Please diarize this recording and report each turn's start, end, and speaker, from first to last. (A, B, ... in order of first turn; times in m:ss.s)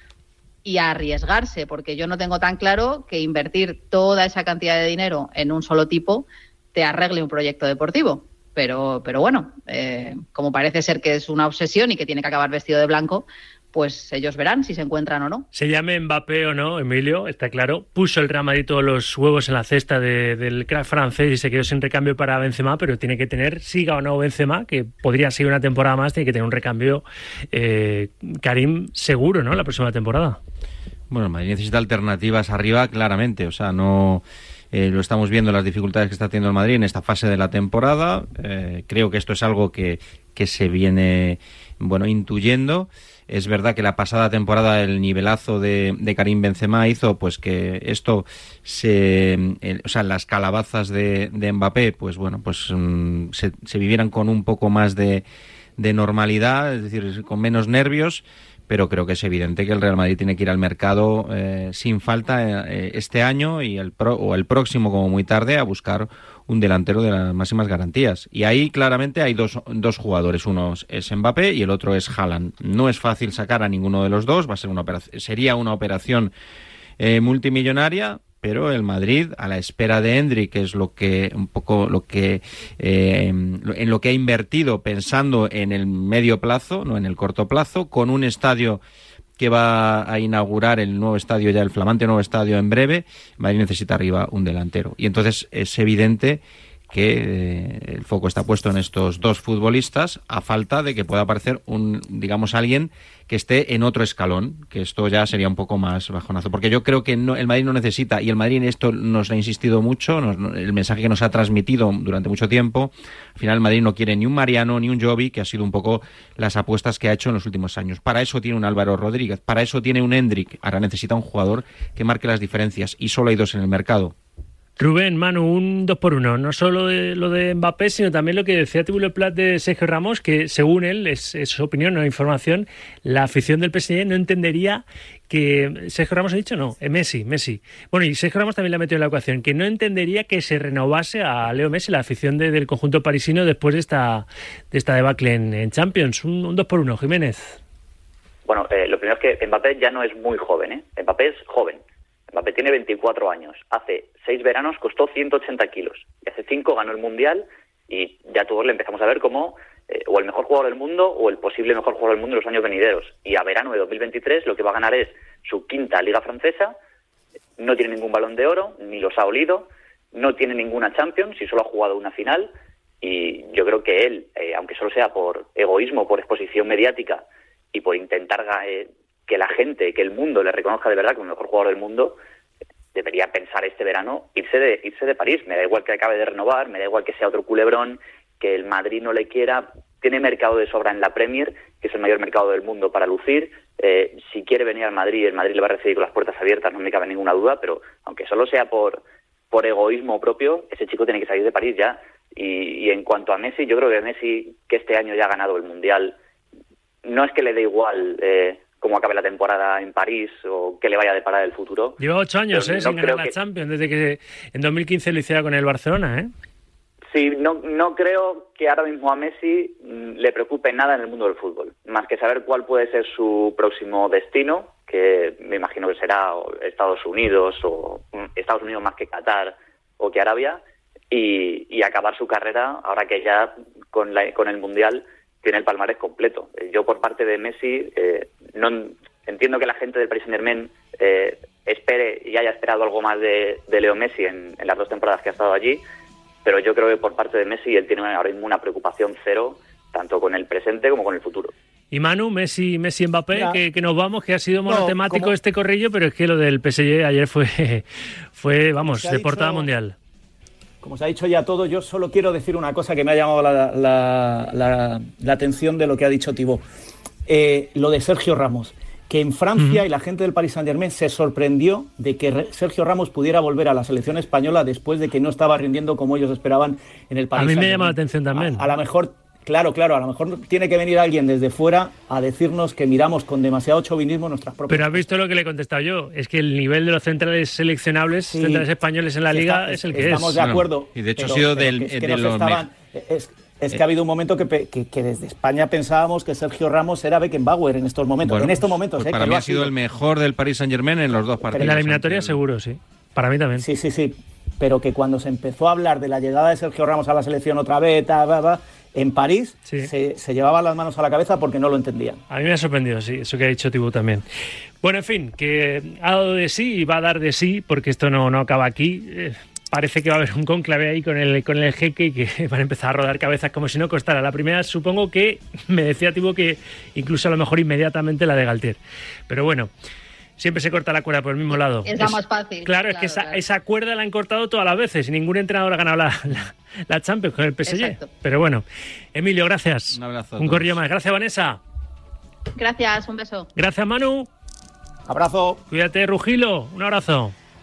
0:00.6-0:15.4 A
0:15.5-0:30.4 B
0:31.1-0:55.2 C
0:55.8-1:16.3 C
1:17.0-1:28.8 C
1:29.4-2:04.1 C
2:04.8-2:27.6 B
2:28.4-2:31.8 D
2:32.3-2:46.8 D
2:47.6-3:02.2 D
3:02.9-3:26.2 D
3:27.0-3:32.0 D
3:32.0-3:36.3 B
3:32.5-3:33.3 D
3:37.1-4:05.8 D
4:06.4-4:11.5 D
4:11.9-4:20.0 B
4:13.3-4:13.6 E
4:14.6-4:15.3 E
4:18.8-4:19.7 E
4:20.8-4:26.6 E
4:27.2-4:45.0 E
4:29.6-4:29.8 B
4:37.4-4:38.7 B
4:44.7-4:50.4 B
4:48.3-4:48.7 E
4:49.3-4:59.7 E
4:50.4-4:52.6 C
4:58.2-5:02.4 C
5:01.5-5:01.8 E
5:01.6-5:03.6 B
5:03.6-5:12.2 E
5:12.3-5:14.2 B
5:14.8-5:29.7 B
5:30.4-5:41.6 B
5:31.8-5:33.4 A
5:37.6-5:38.1 A
5:39.9-5:40.8 C
5:42.6-5:43.5 A
5:43.6-5:44.3 B
5:45.0-5:45.6 E
5:45.7-5:47.3 B